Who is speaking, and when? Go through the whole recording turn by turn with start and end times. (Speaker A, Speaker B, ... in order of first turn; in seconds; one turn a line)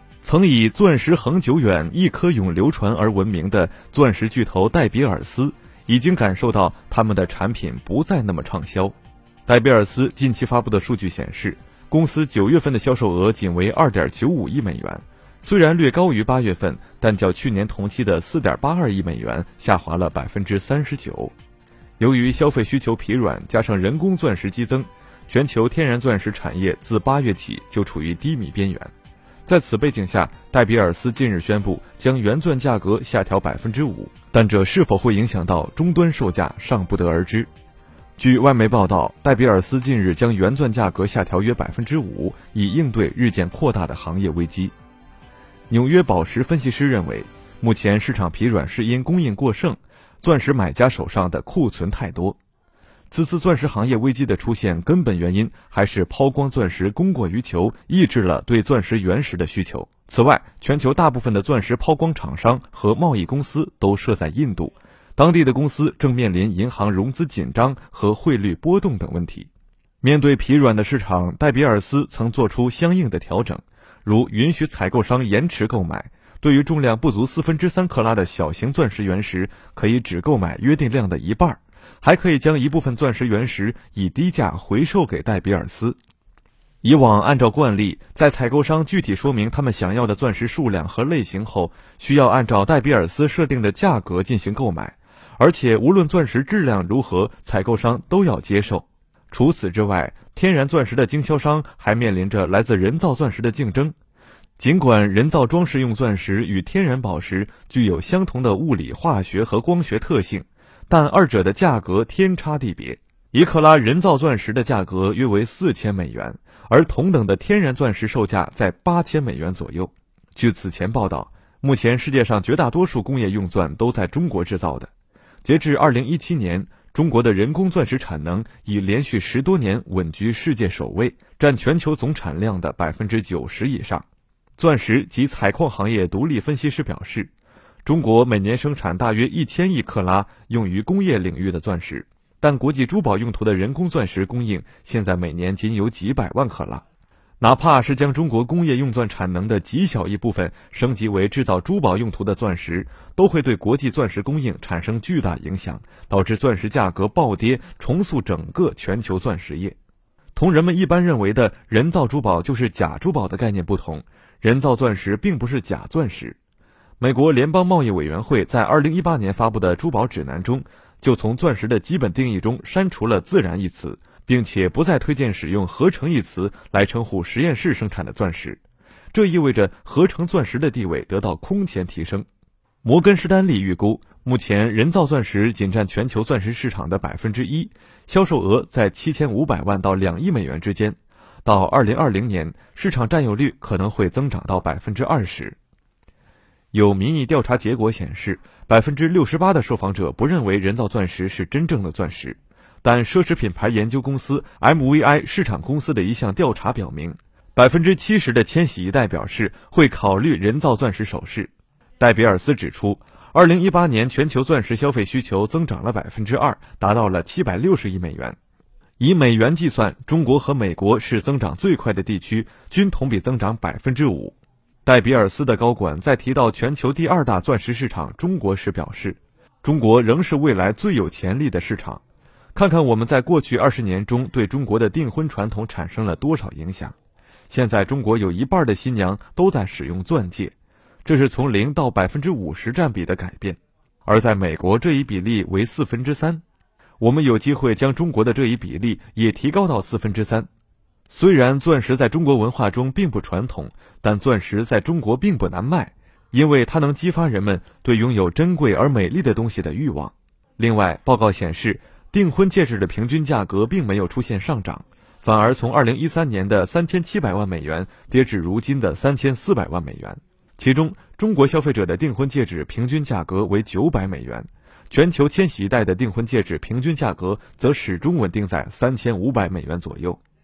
Speaker A: 0.2-8.9
Speaker A: 9.4-21.3
Speaker A: 22.0-28.9
Speaker A: 29.4-37.5
Speaker A: 38.2-44.7
Speaker A: 45.7-52.4
Speaker A: 53.1-69.5
Speaker A: 70.0-86.0
Speaker A: 86.8-103.9
Speaker A: 104.6-124.9
Speaker A: 125.4-134.0
Speaker A: 134.6-137.3
Speaker A: 137.8-146.8
Speaker A: 147.4-159.8
Speaker A: 160.3-166.4
Speaker A: 167.0-178.6
Speaker A: 179.1-182.2
Speaker A: 182.8-195.6
Speaker A: 196.7-218.3
Speaker A: 219.0-232.0
Speaker A: 232.5-236.9
Speaker A: 237.5-240.5
Speaker A: 241.0-246.4
Speaker A: 247.0-250.5
Speaker A: 251.1-280.2